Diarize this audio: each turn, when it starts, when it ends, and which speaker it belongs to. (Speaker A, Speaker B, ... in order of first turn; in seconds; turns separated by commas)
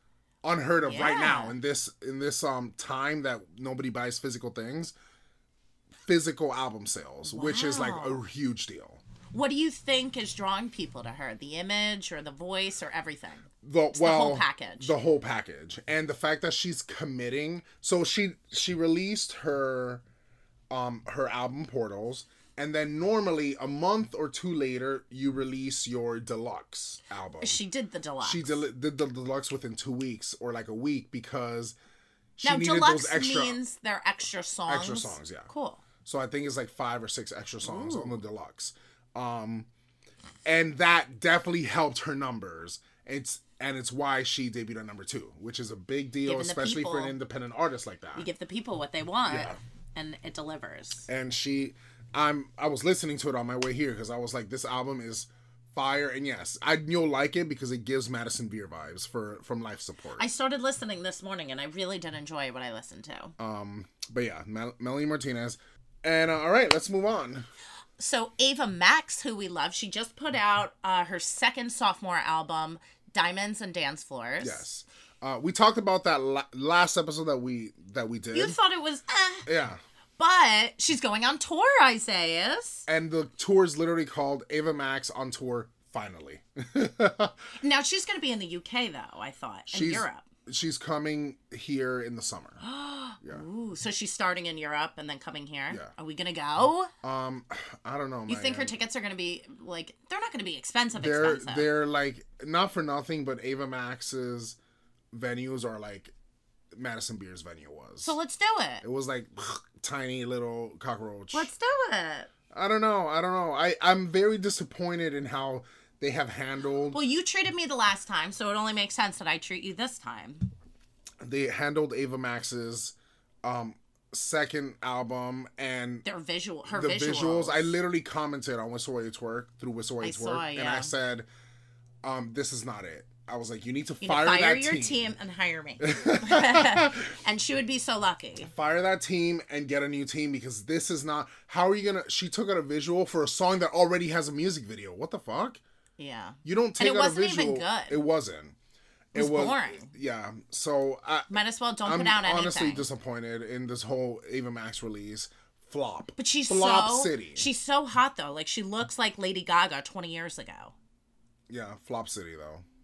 Speaker A: 0.4-4.9, Speaker B: 0.8-1.6, Speaker A: 6.0-9.0, Speaker B: 7.3-8.2, Speaker B: 9.3-14.9, Speaker A: 13.6-20.0, Speaker A: 20.7-27.6, Speaker B: 27.4-28.6, Speaker A: 28.2-31.8, Speaker A: 32.4-33.6, Speaker B: 32.4-35.8, Speaker A: 34.7-35.5, Speaker A: 36.0-39.7, Speaker B: 37.6-38.2, Speaker A: 40.5-48.3, Speaker B: 46.2-47.2, Speaker B: 48.1-51.1, Speaker A: 49.3-49.6, Speaker A: 51.1-60.2, Speaker B: 60.2-63.4, Speaker A: 63.4-67.5, Speaker B: 68.0-74.6, Speaker A: 74.4-78.6, Speaker B: 78.3-79.5, Speaker A: 79.5-79.8, Speaker B: 80.2-82.9, Speaker A: 82.9-87.4, Speaker B: 87.6-90.2, Speaker A: 89.7-92.6, Speaker B: 92.6-96.9, Speaker A: 97.0-98.7, Speaker B: 98.3-101.7, Speaker A: 100.9-104.6, Speaker A: 105.1-106.1, Speaker A: 106.7-108.2, Speaker B: 108.0-108.8, Speaker A: 108.8-111.5, Speaker B: 111.3-112.3, Speaker A: 112.5-117.0, Speaker B: 116.9-120.5, Speaker A: 121.2-126.0, Speaker B: 126.0-127.7, Speaker A: 126.7-131.3, Speaker B: 130.0-130.9, Speaker A: 132.0-135.1, Speaker B: 134.0-138.5, Speaker A: 135.8-137.0, Speaker A: 138.4-145.6, Speaker B: 146.0-148.1, Speaker A: 146.4-148.6, Speaker A: 149.1-157.5, Speaker B: 149.1-149.9, Speaker B: 151.3-152.9, Speaker B: 156.2-160.8, Speaker A: 161.5-162.7